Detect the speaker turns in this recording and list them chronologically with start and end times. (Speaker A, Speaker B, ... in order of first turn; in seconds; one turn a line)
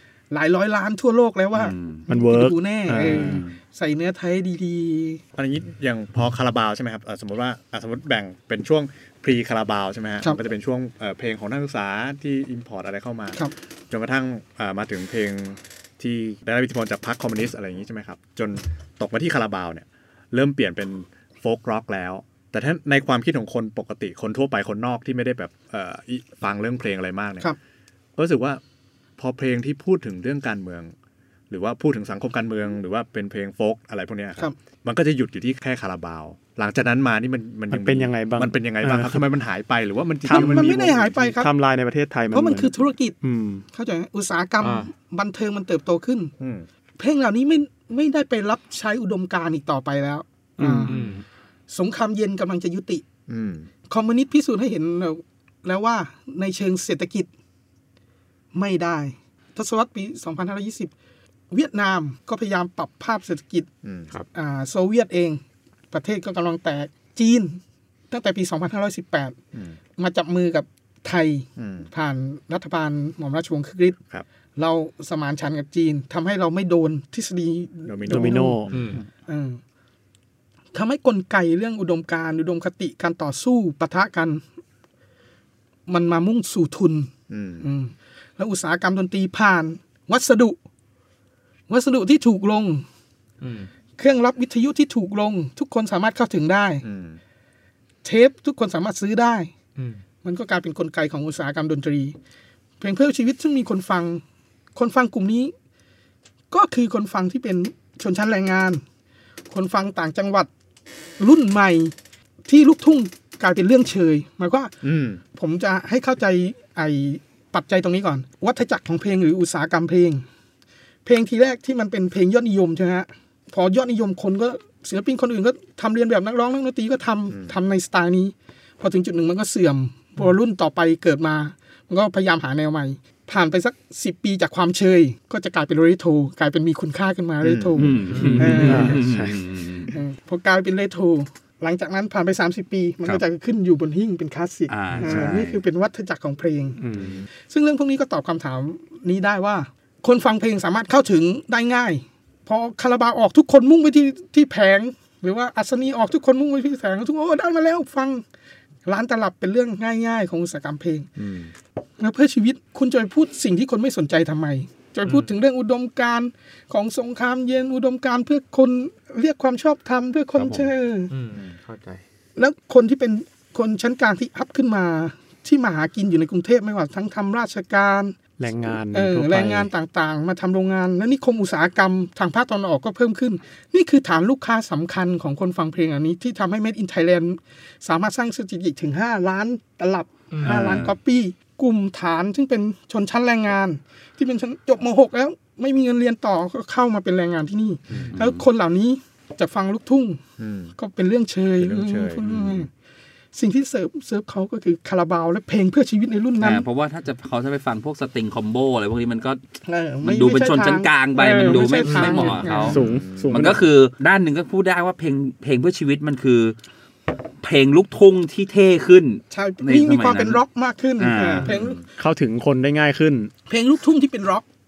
Speaker A: 0.3-5.2
Speaker B: 1.5-2.1
Speaker C: 2.1-3.4
Speaker B: 3.0-3.6
Speaker D: 5.3-27.5
Speaker D: 28.2-28.6
Speaker D: 29.2-30.9
Speaker D: 31.5-41.3
Speaker C: 37.7-39.3
Speaker A: 40.3-41.5
Speaker C: 40.3-43.6
Speaker A: 42.3-43.2
Speaker A: 43.7-46.3
Speaker E: 44.6-44.9
Speaker D: 46.4-46.7
Speaker A: 47.0-51.0
Speaker C: 50.6-51.2
Speaker E: 50.9-51.2
Speaker A: 51.7-53.0
Speaker D: 53.3-53.7
Speaker A: 53.9-57.3
Speaker A: 58.5-60.9
Speaker A: 61.5-63.7
Speaker D: 63.8-64.1
Speaker A: 64.3-69.4
Speaker A: 70.0-74.0
Speaker D: 71.6-71.9
Speaker A: 74.6-78.7
Speaker D: 77.9-79.0
Speaker C: 78.1-78.7
Speaker E: 78.7-79.0
Speaker A: 79.3-79.6
Speaker A: 80.7-84.4
Speaker A: 85.9-87.1
Speaker D: 87.3-87.7
Speaker A: 87.6-90.6
Speaker A: 91.7-92.8
Speaker E: 93.4-93.7
Speaker A: 94.0-96.8
Speaker D: 96.8-97.2
Speaker A: 98.0-99.5
Speaker A: 100.2-102.2
Speaker A: 102.8-104.2
Speaker A: 104.8-105.5
Speaker A: 106.5-108.8
Speaker A: 109.5-110.5
Speaker A: 111.2-111.9
Speaker A: 112.5-120.2
Speaker D: 114.8-115.2
Speaker A: 121.0-139.1
Speaker D: 127.3-127.6
Speaker D: 137.4-138.0
Speaker B: 137.8-139.9
Speaker E: 138.1-138.9
Speaker C: 138.2-139.5
Speaker A: 139.9-146.8
Speaker B: 144.7-145.6
Speaker C: 146.8-147.2
Speaker D: 147.0-147.2
Speaker A: 147.5-158.2
Speaker A: 158.8-161.1
Speaker D: 161.2-161.5
Speaker A: 162.0-171.1
Speaker E: 165.1-165.3
Speaker B: 170.4-170.7
Speaker E: 171.1-172.0
Speaker A: 172.4-178.2
Speaker C: 178.4-179.7
Speaker A: 178.9-200.2
Speaker E: 190.3-190.8
Speaker B: 190.4-190.9
Speaker B: 198.1-198.4
Speaker D: 200.4-200.7
Speaker A: 200.8-202.7
Speaker D: 201.6-202.7
Speaker A: 203.3-206.7
Speaker B: 206.4-209.4
Speaker A: 209.7-212.8
Speaker B: 210.0-216.6
Speaker E: 211.8-212.5
Speaker C: 212.6-213.6
Speaker D: 212.7-213.5
Speaker B: 217.4-220.4
Speaker A: 219.3-221.8
Speaker B: 221.0-221.6
Speaker C: 222.0-223.3
Speaker A: 223.5-224.4